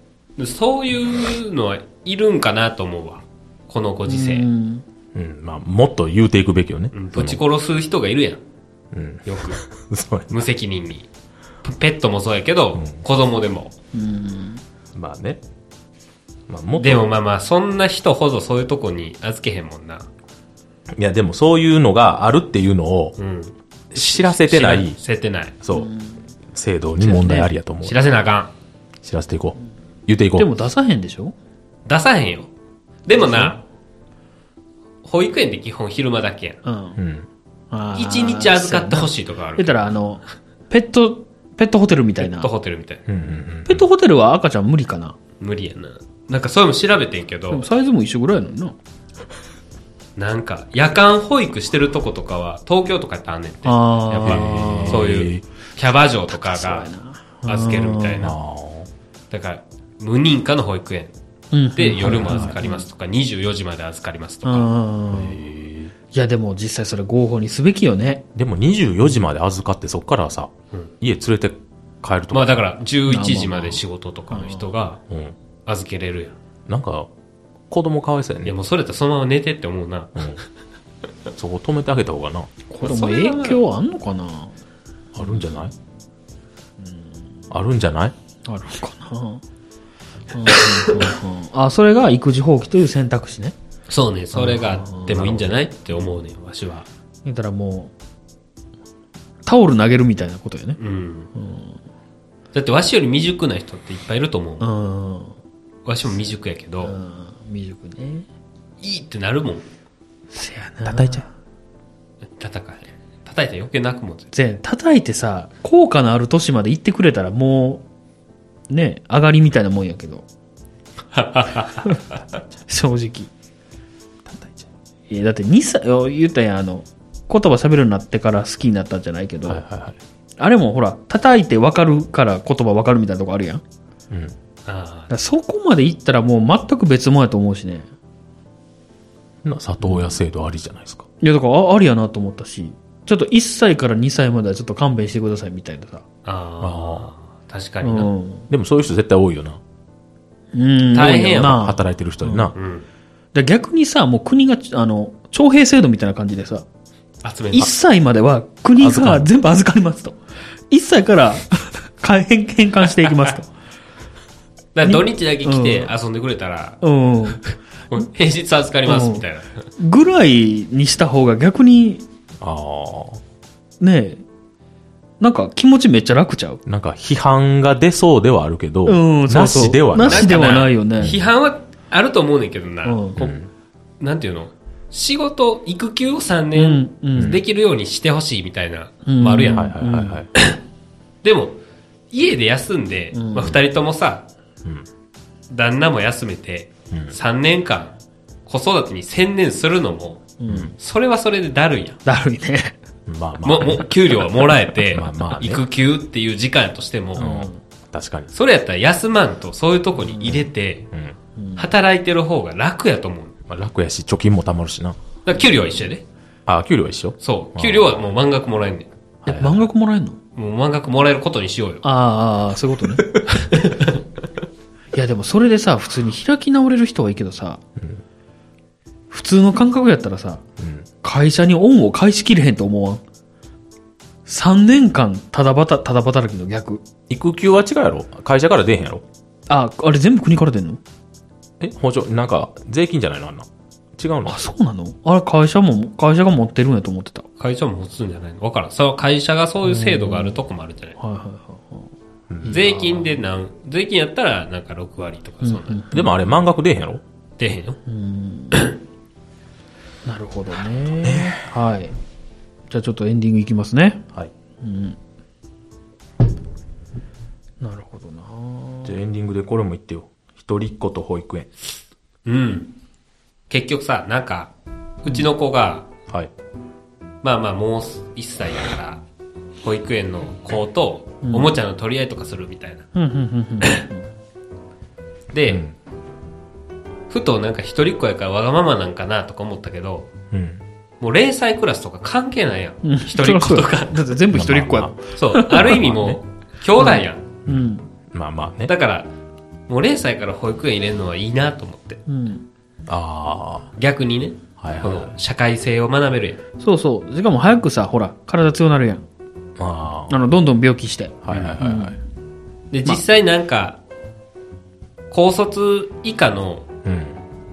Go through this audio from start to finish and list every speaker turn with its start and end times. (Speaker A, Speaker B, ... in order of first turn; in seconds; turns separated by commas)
Speaker A: 0.4-4.5, Speaker B: 4.0-4.8, Speaker C: 5.1-7.4, Speaker A: 6.9-8.4, Speaker C: 8.9-10.3, Speaker A: 9.2-9.6, Speaker A: 10.3-11.1, Speaker A: 11.6-13.7, Speaker C: 12.8-13.0, Speaker B: 13.9-14.6, Speaker C: 14.9-15.4, Speaker C: 16.5-17.1, Speaker A: 16.8-20.1, Speaker C: 20.9-23.1, Speaker A: 23.2-25.5, Speaker C: 23.9-25.0, Speaker C: 25.6-25.9, Speaker B: 25.7-26.2, Speaker C: 26.5-28.0, Speaker B: 27.0-27.5, Speaker A: 27.8-28.5, Speaker C: 29.0-30.5, Speaker B: 30.4-31.3, Speaker A: 31.9-32.5, Speaker A: 33.0-33.6, Speaker B: 33.2-33.5, Speaker A: 35.0-36.6, Speaker B: 36.6-37.0, Speaker C: 37.0-37.3, Speaker B: 37.7-42.5, Speaker A: 37.9-39.9, Speaker A: 42.2-43.0, Speaker C: 43.1-43.8, Speaker B: 43.7-45.1, Speaker A: 45.4-47.6, Speaker B: 47.5-48.8, Speaker A: 50.2-56.9, Speaker B: 53.6-55.1, Speaker C: 54.2-55.4, Speaker B: 56.3-58.3, Speaker A: 57.4-58.4, Speaker C: 58.2-58.9, Speaker A: 59.3-61.1, Speaker B: 61.5-62.9, Speaker A: 61.7-64.7, Speaker C: 62.0-62.6, Speaker B: 64.4-65.4, Speaker C: 65.1-65.9, Speaker B: 66.1-68.2, Speaker C: 68.3-72.6, Speaker A: 72.3-75.0, Speaker B: 73.1-74.7, Speaker C: 75.1-75.3, Speaker A: 75.7-76.3, Speaker C: 76.7-77.1, Speaker C: 77.7-78.5, Speaker A: 78.5-80.4, Speaker C: 81.3-82.5, Speaker B: 82.7-84.5, Speaker A: 82.8-83.6, Speaker C: 85.1-85.7, Speaker B: 85.2-85.5, Speaker B: 86.8-87.1, Speaker C: 87.5-88.1, Speaker B: 88.4-89.4, Speaker B: 90.3-93.5, Speaker A: 93.9-96.9, Speaker B: 94.3-95.4, Speaker B: 97.2-97.9, Speaker B: 99.4-100.8, Speaker A: 100.8-101.3, Speaker B: 101.3-101.8, Speaker A: 102.5-104.7, Speaker B: 104.6-105.3, Speaker A: 105.8-107.0, Speaker B: 106.8-108.2, Speaker A: 108.8-109.7, Speaker B: 110.3-111.3, Speaker C: 110.9-111.2, Speaker A: 112.4-114.3, Speaker B: 114.3-117.8, Speaker B: 118.7-120.2, Speaker A: 121.1-122.0, Speaker B: 122.7-123.3, Speaker C: 124.3-124.7, Speaker B: 125.1-129.6, Speaker C: 129.5-130.0, Speaker B: 130.4-133.6, Speaker A: 134.7-135.1, Speaker B: 135.1-137.9, Speaker C: 139.4-141.1, Speaker B: 139.8-140.1, Speaker B: 141.2-146.0, Speaker A: 146.2-148.1, Speaker C: 146.6-147.1, Speaker B: 147.8-148.5, Speaker C: 148.5-149.6, Speaker B: 150.5-152.5, Speaker A: 150.9-151.7, Speaker C: 151.3-152.5, Speaker A: 152.5-152.8, Speaker B: 153.3-156.7, Speaker A: 157.2-157.7, Speaker B: 157.5-160.2, Speaker C: 158.8-159.3, Speaker B: 160.7-163.5, Speaker A: 164.7-169.7, Speaker B: 164.8-165.9, Speaker B: 166.8-167.4, Speaker B: 168.8-169.2, Speaker B: 169.8-172.0, Speaker C: 172.4-173.2, Speaker B: 173.8-174.2, Speaker B: 175.2-176.6, Speaker C: 176.7-181.2, Speaker B: 178.8-181.2, Speaker A: 180.0-183.3, Speaker B: 182.8-183.3, Speaker C: 183.2-183.5, Speaker A: 184.0-189.7, Speaker B: 186.5-187.4, Speaker B: 189.0-190.2, Speaker C: 189.5-190.3, Speaker A: 191.2-191.6, Speaker A: 192.1-194.2, Speaker B: 193.1-193.6, Speaker A: 195.5-197.9, Speaker A: 198.4-202.0, Speaker B: 200.4-200.7, Speaker C: 200.5-200.7, Speaker B: 202.0-202.8, Speaker C: 203.1-203.9, Speaker A: 203.4-207.5, Speaker C: 204.9-205.6, Speaker B: 207.2-207.6, Speaker C: 207.2-208.3, Speaker A: 208.3-210.9, Speaker B: 210.1-210.5, Speaker B: 211.4-211.7, Speaker A: 211.6-213.3, Speaker C: 213.5-215.0, Speaker A: 215.2-216.0, Speaker C: 216.5-218.0, Speaker A: 217.2-218.9, Speaker C: 219.2-219.6, Speaker B: 219.2-220.2, Speaker A: 220.3-221.8, Speaker B: 221.8-223.1, Speaker A: 223.3-223.9, Speaker B: 224.9-227.6, Speaker B: 229.1-230.4, Speaker C: 230.6-230.8, Speaker B: 231.0-233.0, Speaker B: 234.2-236.8, Speaker C: 237.1-239.0, Speaker B: 239.5-240.8, Speaker C: 241.6-244.4, Speaker B: 244.2-247.2, Speaker A: 247.4-251.0, Speaker B: 249.6-250.4, Speaker B: 251.0-251.9, Speaker C: 252.3-252.6, Speaker B: 252.4-253.2, Speaker A: 252.5-255.9, Speaker B: 255.4-256.1, Speaker C: 255.9-257.0, Speaker A: 257.4-257.8, Speaker B: 257.9-258.6, Speaker B: 260.0-261.9, Speaker C: 261.0-261.5, Speaker B: 262.7-264.0, Speaker B: 264.6-265.0, Speaker B: 267.6-269.0, Speaker C: 268.8-271.5, Speaker A: 272.2-272.7, Speaker A: 273.5-274.5, Speaker A: 275.0-275.9, Speaker A: 277.2-279.0, Speaker A: 279.6-282.9, Speaker B: 281.2-281.5, Speaker B: 282.9-284.1, Speaker A: 285.3-285.6, Speaker C: 285.5-285.7, Speaker A: 287.1-290.1, Speaker C: 290.3-290.6, Speaker A: 291.0-294.2, Speaker B: 292.8-295.9, Speaker C: 294.3-295.0, Speaker A: 295.1-297.3, Speaker C: 295.5-296.2, Speaker B: 296.8-297.9, Speaker C: 297.4-298.7, Speaker A: 298.7-299.1, Speaker A: 299.7-302.0, Speaker B: 302.1-302.4, Speaker C: 302.9-303.7, Speaker A: 303.8-306.4, Speaker C: 304.6-305.1, Speaker B: 306.6-309.1, Speaker C: 309.6-310.2, Speaker B: 310.1-312.0, Speaker C: 311.2-311.9, Speaker A: 312.7-313.8, Speaker A: 315.1-316.7, Speaker C: 316.8-317.2